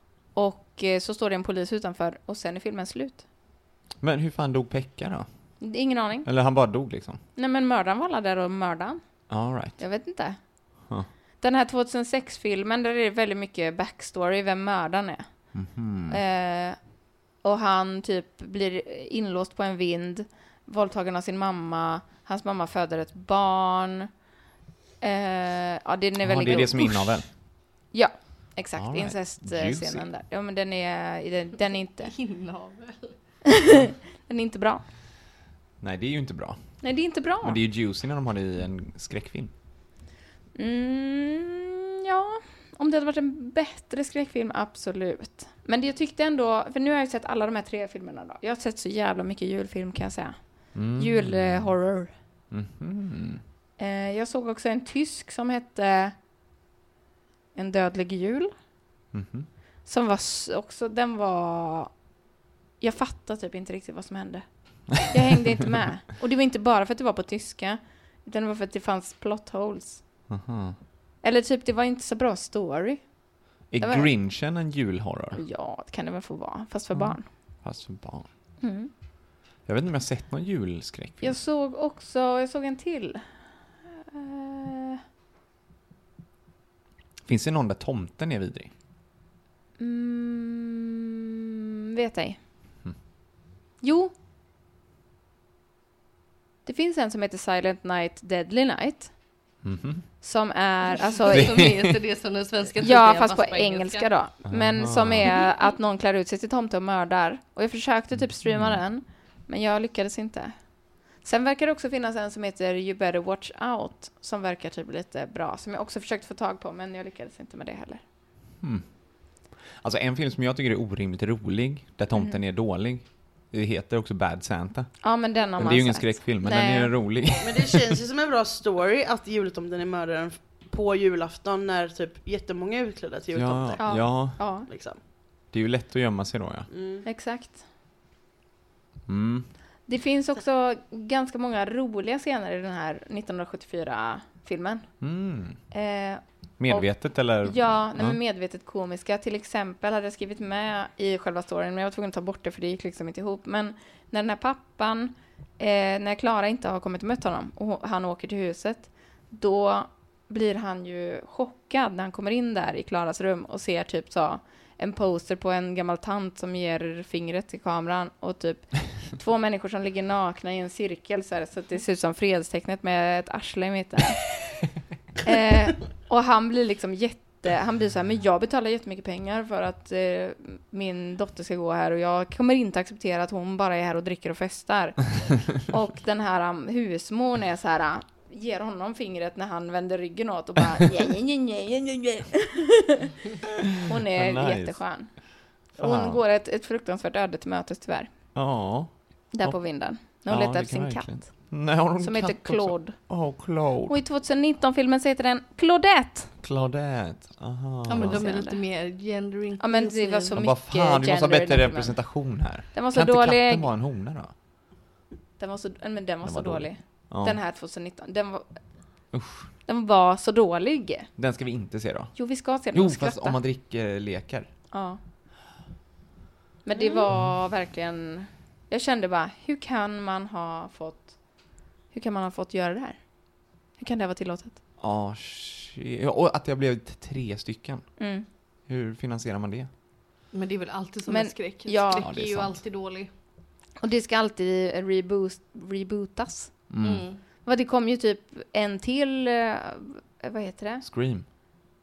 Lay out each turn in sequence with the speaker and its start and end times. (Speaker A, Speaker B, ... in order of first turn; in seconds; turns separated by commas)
Speaker A: 0.3-3.2, Speaker B: 4.0-7.2, Speaker A: 5.6-6.3, Speaker A: 7.3-24.1, Speaker B: 9.3-9.9, Speaker B: 15.5-16.2, Speaker A: 25.0-32.1, Speaker B: 26.2-27.3, Speaker B: 28.8-30.1, Speaker C: 32.1-33.4, Speaker A: 34.2-34.8, Speaker B: 35.8-39.5, Speaker A: 36.8-37.6, Speaker A: 40.6-52.2, Speaker B: 50.7-52.0, Speaker B: 52.5-53.4, Speaker A: 53.8-56.1, Speaker A: 57.5-58.5, Speaker B: 59.1-59.5, Speaker A: 59.9-62.1, Speaker A: 62.8-70.2, Speaker B: 70.3-70.8, Speaker A: 71.2-74.1, Speaker B: 73.7-75.4, Speaker A: 75.4-77.3, Speaker B: 76.9-78.3, Speaker A: 78.6-78.9, Speaker B: 79.6-81.4, Speaker A: 81.2-85.0, Speaker B: 87.2-88.7, Speaker A: 89.8-91.1, Speaker A: 92.0-92.4, Speaker A: 93.8-94.1, Speaker A: 96.7-99.2, Speaker B: 99.6-100.1, Speaker A: 100.2-101.6, Speaker C: 101.3-104.1, Speaker B: 101.3-102.0, Speaker A: 102.8-118.0, Speaker B: 104.5-105.3, Speaker B: 108.1-108.8, Speaker B: 118.6-128.0, Speaker A: 122.2-122.4, Speaker A: 125.0-127.0, Speaker D: 127.4-135.0, Speaker B: 133.3-134.7, Speaker A: 133.8-134.7, Speaker B: 135.5-136.7, Speaker D: 136.7-137.1, Speaker A: 137.1-137.6, Speaker B: 139.1-139.7, Speaker A: 139.9-145.1, Speaker B: 145.0-145.6, Speaker A: 145.7-174.6, Speaker B: 146.6-148.2, Speaker A: 175.2-193.0, Speaker A: 193.8-198.3, Speaker B: 194.1-196.2, Speaker B: 198.3-204.0, Speaker A: 199.3-206.3, Speaker B: 206.4-208.4, Speaker C: 207.9-210.3, Speaker A: 208.0-208.6, Speaker A: 209.6-213.7, Speaker B: 210.3-214.3, Speaker A: 215.4-219.1, Speaker B: 216.2-217.4, Speaker B: 219.1-219.5, Speaker A: 219.7-221.1, Speaker B: 221.2-224.6, Speaker A: 222.2-223.4, Speaker A: 224.7-225.0, Speaker A: 226.7-234.6, Speaker B: 234.8-238.1, Speaker A: 238.0-238.2, Speaker B: 238.7-239.7, Speaker C: 240.3-243.1, Speaker A: 241.1-242.1, Speaker B: 241.9-242.7, Speaker A: 243.8-246.7, Speaker B: 246.7-247.1, Speaker C: 246.8-247.2, Speaker A: 247.4-250.8, Speaker B: 250.8-251.3